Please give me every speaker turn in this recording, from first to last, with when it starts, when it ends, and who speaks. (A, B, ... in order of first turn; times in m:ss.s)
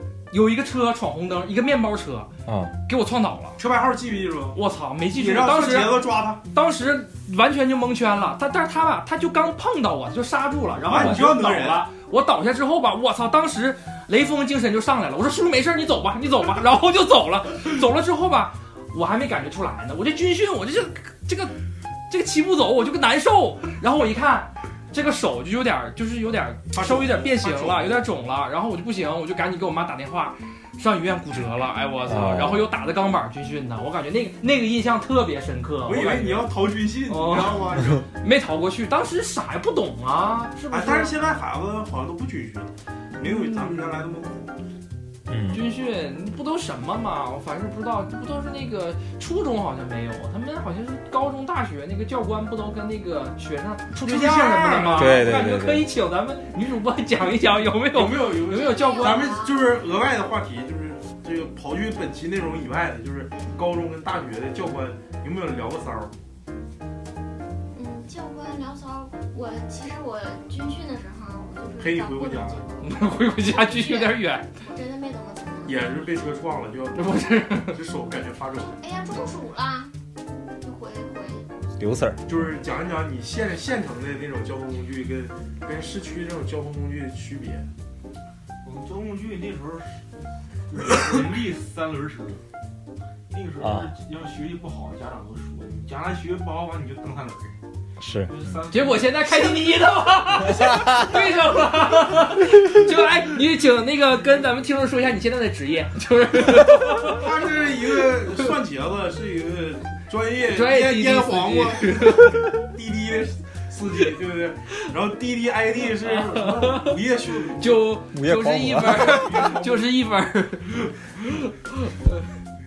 0:00.3-0:02.3 A
0:02.5-0:02.7 B
0:02.9-0:03.6 A
0:03.6-0:04.6 C
0:04.5-0:21.5 A
0:05.1-0:06.4 C
0:10.8-0:11.9 C
0:10.9-0:11.2 B
0:22.1-0:36.5 A
0:26.7-0:28.0 C
0:32.1-0:32.6 B
0:35.8-0:38.1 C
0:37.1-0:41.1 A
0:40.7-0:44.5 C
0:43.2-0:43.9 A
0:45.3-0:45.6 B
0:45.5-0:59.3 A
0:53.9-0:55.3 C
0:54.9-0:55.9 B
0:57.9-1:06.1 C
0:58.4-0:59.7 D
1:03.3-1:03.6 D
1:07.7-1:16.0 D
1:11.8-1:12.6 C
1:12.8-1:14.5 A
1:15.6-1:18.8 C
1:16.9-1:17.8 A
1:18.8-1:19.9 D
1:20.6-1:21.5 D
1:21.8-1:22.2 B
1:22.2-1:27.7 C
1:28.6-1:30.0 E
1:30.7-1:32.4 E
1:33.3-1:37.6 E
1:33.6-1:33.9 B
1:38.0-1:38.3 B
1:38.2-1:39.4 E
1:38.7-1:47.2 A
1:47.0-1:57.9 C
1:50.5-1:52.5 A
1:55.8-2:02.3 A
1:58.1-1:59.4 B
1:59.0-1:59.8 E